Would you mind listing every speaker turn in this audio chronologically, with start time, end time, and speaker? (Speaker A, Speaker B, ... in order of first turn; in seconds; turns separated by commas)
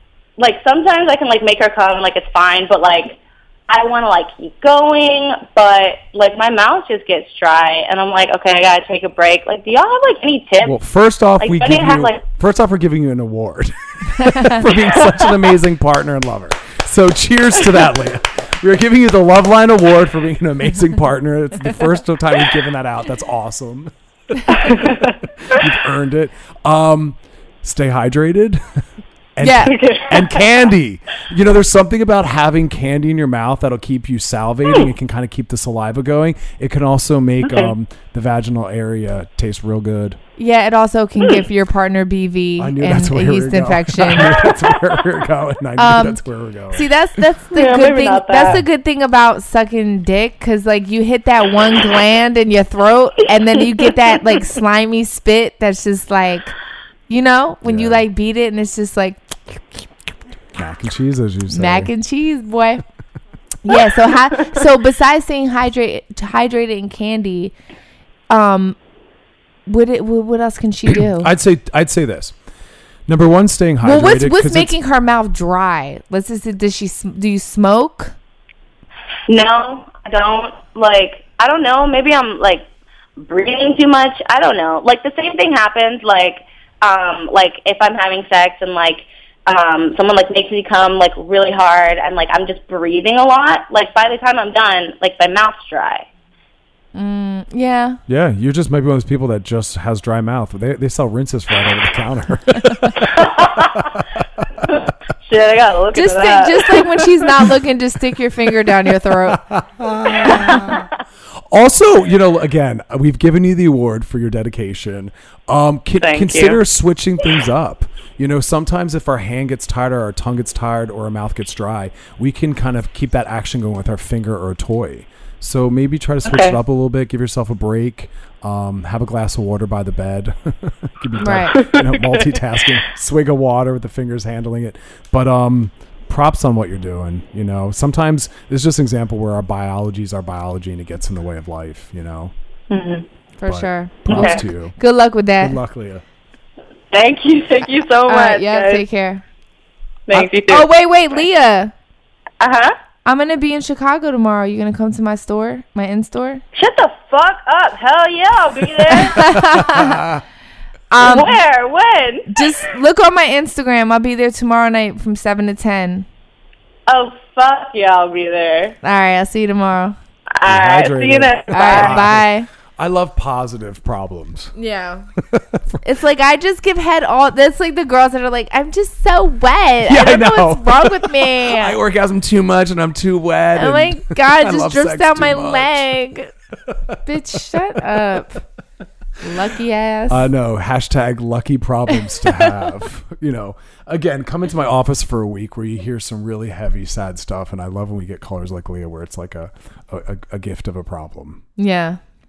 Speaker A: 0.4-10.8, Speaker B: 10.6-40.2, Speaker A: 11.4-12.2, Speaker A: 24.6-25.1, Speaker C: 29.4-29.8, Speaker A: 29.6-30.5, Speaker A: 37.4-37.7, Speaker C: 40.4-44.4, Speaker B: 42.6-46.9, Speaker A: 44.3-44.9, Speaker C: 45.8-56.5, Speaker A: 47.5-48.6, Speaker A: 53.4-54.2, Speaker C: 57.1-59.9, Speaker B: 57.6-58.0, Speaker B: 60.5-61.9, Speaker C: 61.5-62.8, Speaker C: 63.6-67.5, Speaker C: 68.3-68.8, Speaker C: 69.7-71.3, Speaker B: 70.9-72.3, Speaker B: 73.1-74.8, Speaker C: 73.8-78.2, Speaker A: 79.3-96.1, Speaker C: 96.9-98.0, Speaker B: 98.1-104.7, Speaker A: 103.1-103.8, Speaker A: 104.7-107.4, Speaker C: 105.9-109.4, Speaker B: 109.3-110.8, Speaker A: 110.3-110.8, Speaker B: 111.4-142.3, Speaker A: 116.0-116.6, Speaker A: 126.2-126.6, Speaker C: 131.2-131.6, Speaker A: 131.5-132.8, Speaker A: 142.7-143.0, Speaker C: 143.4-145.6, Speaker B: 143.4-144.8, Speaker A: 144.1-144.4, Speaker B: 145.4-146.0, Speaker A: 146.9-148.8, Speaker C: 148.1-149.2, Speaker A: 150.1-150.7, Speaker C: 150.1-151.7, Speaker A: 152.4-152.7, Speaker C: 153.0-156.4, Speaker A: 156.5-159.4, Speaker C: 158.9-160.1, Speaker B: 159.5-160.2, Speaker C: 160.9-161.4, Speaker A: 161.0-162.6, Speaker C: 162.3-166.1, Speaker A: 166.9-168.8, Speaker C: 168.8-169.9, Speaker A: 170.3-172.1, Speaker B: 170.4-174.5, Speaker C: 171.5-172.5, Speaker C: 174.5-175.1, Speaker B: 175.2-175.8, Speaker C: 175.8-181.8, Speaker B: 179.8-185.9, Speaker C: 183.6-186.3, Speaker B: 186.6-188.4, Speaker C: 187.0-188.4, Speaker C: 189.2-190.3, Speaker B: 190.1-201.4, Speaker C: 201.6-202.0